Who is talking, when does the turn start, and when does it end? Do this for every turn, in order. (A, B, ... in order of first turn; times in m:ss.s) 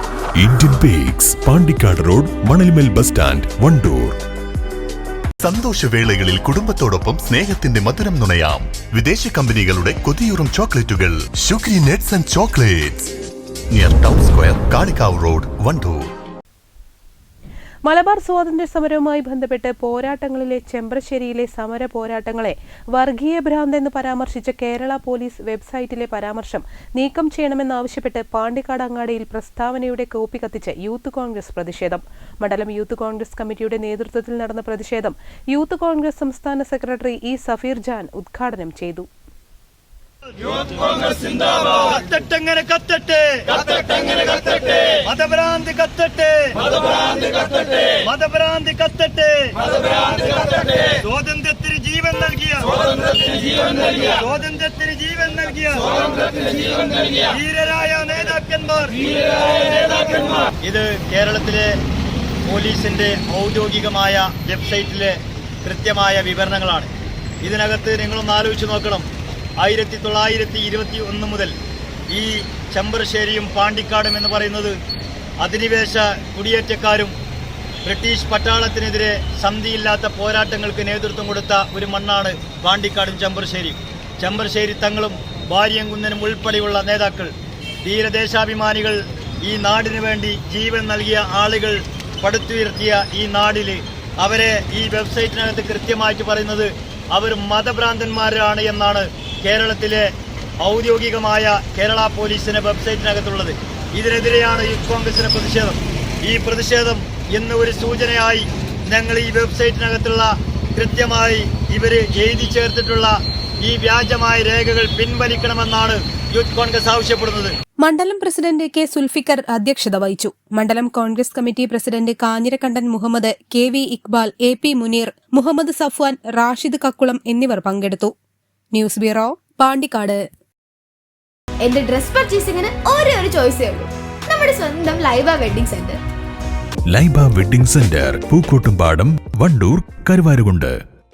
0:00.4-0:04.2 A
0:05.4-0:13.0 B
0:13.7-0:16.0 B
0:17.8-0:39.1 C
0:41.2-0:46.6 D
0:47.8-0:49.6 D
0:50.8-0:59.1 D
1:00.6-1:01.8 D
1:02.4-1:06.9 D
1:07.4-1:09.1 D
1:09.6-1:11.6 D
1:12.1-1:14.8 D
1:15.4-1:17.1 D
1:17.8-1:27.3 D
1:27.8-1:40.1 D
1:40.6-1:57.5 D
1:57.8-2:08.1 C
2:08.7-2:10.2 C
2:11.6-2:16.0 E
2:16.9-2:20.7 A